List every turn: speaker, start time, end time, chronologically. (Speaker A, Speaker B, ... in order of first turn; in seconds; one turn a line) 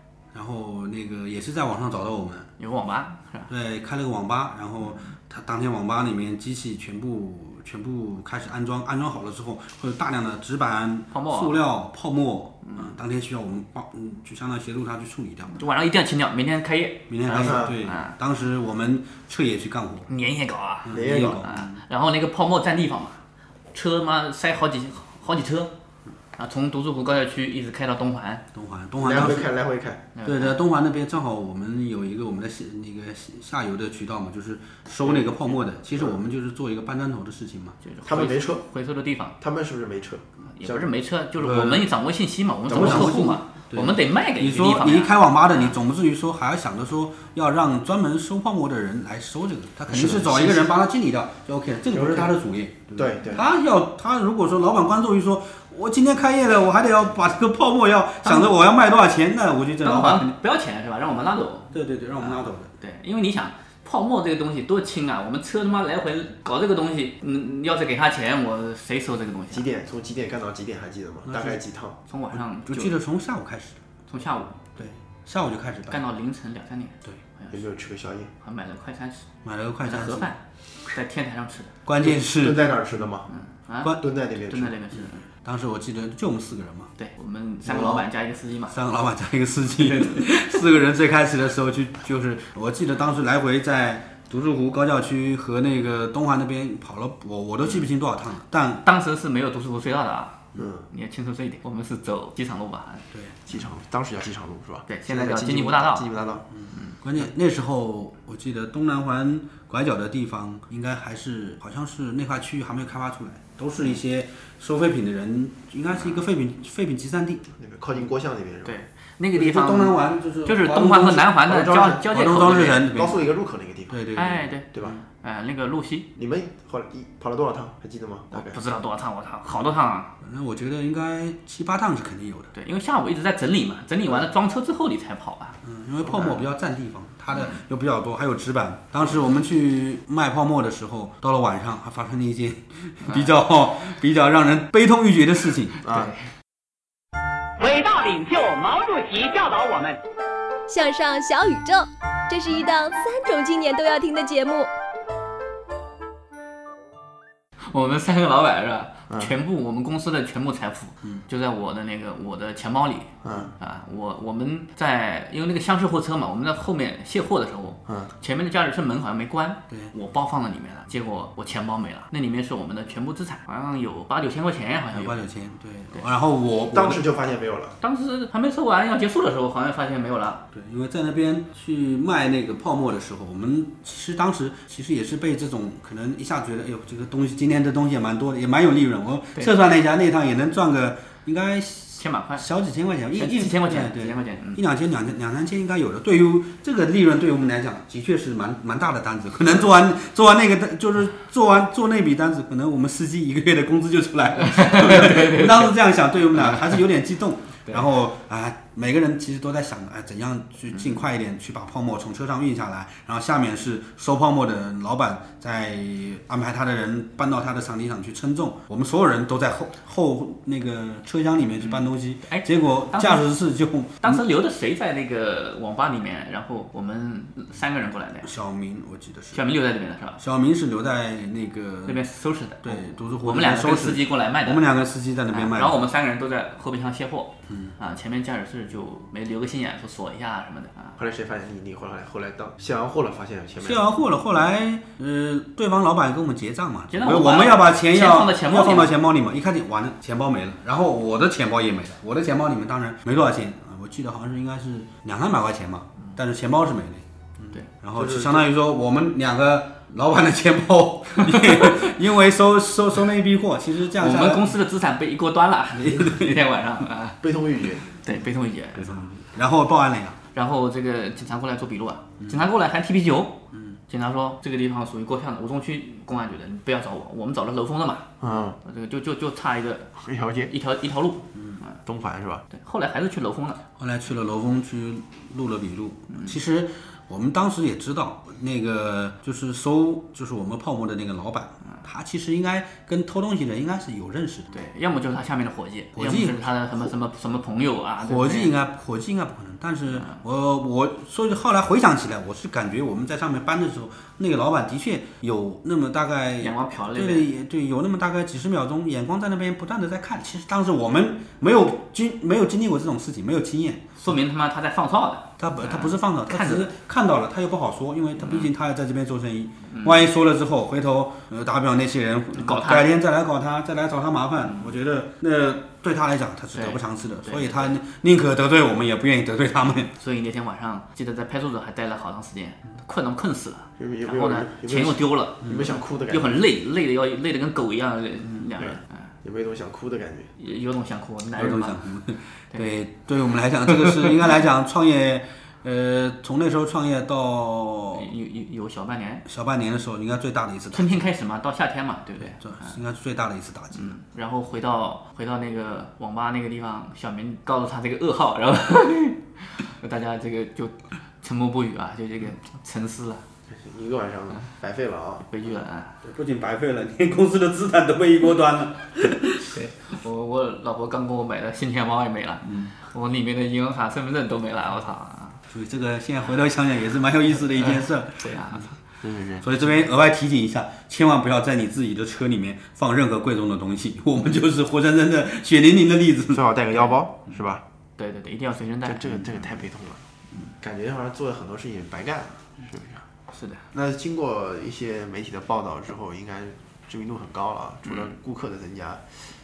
Speaker A: 0.3-2.5
Speaker B: 2.6-3.5
Speaker A: 3.5-15.6
Speaker B: 11.1-11.6
Speaker B: 12.6-12.9
Speaker B: 15.6-18.1
Speaker A: 17.1-20.1
Speaker C: 17.4-17.7
Speaker B: 20.1-23.2
Speaker A: 20.8-21.8
Speaker C: 20.9-21.5
Speaker B: 23.7-25.7
Speaker B: 26.4-28.4
Speaker A: 28.5-29.5
Speaker C: 29.0-30.0
Speaker B: 30.1-30.6
Speaker A: 30.2-37.8
Speaker C: 35.9-36.2
Speaker B: 37.8-39.3
Speaker C: 38.0-38.6
Speaker C: 39.4-41.9
Speaker B: 40.5-45.7
Speaker C: 42.7-43.4
Speaker A: 42.7-60.3
Speaker C: 49.9-50.7
Speaker C: 51.9-52.3
Speaker C: 52.9-53.4
Speaker B: 58.2-58.5
Speaker B: 59.8-69.6
Speaker A: 61.7-62.7
Speaker C: 69.5-72.0
Speaker A: 71.2-71.6
Speaker B: 72.1-72.9
Speaker A: 72.3-73.8
Speaker B: 74.1-74.6
Speaker A: 74.8-76.0
Speaker B: 75.9-77.6
Speaker C: 77.5-78.3
Speaker B: 78.4-79.3
Speaker A: 79.4-80.3
Speaker B: 79.8-81.7
Speaker A: 81.8-82.7
Speaker C: 82.0-83.3
Speaker B: 83.3-85.2
Speaker C: 84.0-84.8
Speaker A: 85.3-86.9
Speaker B: 87.0-88.8
Speaker A: 87.6-88.0
Speaker A: 88.7-98.8
Speaker B: 89.7-90.6
Speaker B: 97.6-97.9
Speaker B: 98.8-103.0
Speaker C: 100.6-100.9
Speaker A: 103.1-103.4
Speaker C: 103.5-106.4
Speaker B: 104.9-106.1
Speaker A: 106.5-117.5
Speaker C: 117.6-118.7
Speaker B: 118.6-122.9
Speaker A: 119.3-123.2
Speaker C: 121.5-122.0
Speaker C: 122.7-124.0
Speaker A: 123.9-125.0
Speaker B: 124.2-124.7
Speaker B: 125.2-126.1
Speaker C: 126.2-128.6
Speaker B: 128.3-130.1
Speaker A: 130.2-132.5
Speaker B: 132.5-135.6
Speaker A: 135.6-145.8
Speaker B: 137.3-137.6
Speaker B: 143.0-143.3
Speaker C: 145.8-146.1
Speaker B: 145.9-146.2
Speaker D: 147.6-150.0
Speaker E: 150.7-154.7
Speaker B: 157.7-175.2
Speaker C: 159.1-159.3
Speaker C: 163.2-163.5
Speaker A: 174.9-177.1
Speaker C: 176.7-177.8
Speaker B: 177.8-180.4
Speaker A: 180.5-224.2
Speaker B: 192.0-192.4
Speaker B: 193.2-194.6
Speaker B: 204.4-205.7
Speaker B: 206.3-206.8
Speaker B: 221.6-223.2
Speaker B: 224.0-228.3
Speaker A: 228.2-229.4
Speaker B: 229.3-230.2
Speaker A: 230.2-232.0
Speaker B: 231.8-234.7
Speaker A: 232.6-235.8
Speaker B: 235.3-240.9
Speaker A: 237.5-237.7
Speaker C: 241.0-243.9
Speaker A: 243.6-264.5
Speaker B: 246.9-248.9
Speaker C: 257.9-258.5
Speaker B: 261.2-261.8
Speaker B: 264.0-267.2
Speaker A: 265.7-266.4
Speaker C: 267.2-267.8
Speaker B: 267.9-269.1
Speaker A: 268.7-270.2
Speaker B: 270.3-278.1
Speaker A: 272.2-272.4
Speaker A: 273.5-273.8
Speaker C: 278.2-278.6
Speaker B: 278.6-279.9
Speaker C: 280.0-280.5
Speaker B: 280.5-281.8
Speaker A: 281.3-281.6
Speaker C: 281.9-282.4
Speaker B: 282.5-283.6
Speaker A: 283.8-294.5
Speaker B: 286.1-286.4
Speaker B: 294.5-298.5
Speaker A: 295.9-296.9
Speaker A: 298.0-314.0
Speaker B: 299.9-300.2
Speaker B: 306.4-307.3
Speaker B: 314.0-316.7
Speaker A: 315.4-329.9
Speaker B: 318.2-318.5
Speaker B: 319.7-320.0
Speaker B: 322.3-322.9
Speaker B: 324.4-324.7
Speaker B: 326.5-327.7
Speaker B: 329.9-339.1
Speaker C: 333.8-336.4
Speaker A: 335.4-335.7
Speaker A: 338.2-338.5
Speaker C: 338.6-340.3
Speaker B: 340.4-341.8
Speaker A: 341.4-348.1
Speaker B: 343.7-344.2
Speaker B: 347.9-349.2
Speaker A: 349.2-351.1
Speaker B: 350.7-352.8
Speaker A: 352.2-354.0
Speaker B: 353.7-363.2
Speaker C: 363.5-365.3
Speaker B: 365.3-366.0
Speaker A: 366.0-369.5
Speaker B: 369.5-375.4
Speaker A: 372.4-372.7
Speaker A: 375.5-378.6
Speaker B: 377.6-378.7
Speaker C: 379.0-379.5
Speaker A: 379.4-386.4
Speaker C: 386.3-387.6
Speaker B: 388.0-389.0
Speaker C: 388.8-390.0
Speaker A: 389.1-389.4
Speaker C: 390.6-393.0
Speaker B: 393.3-393.6
Speaker C: 393.7-399.0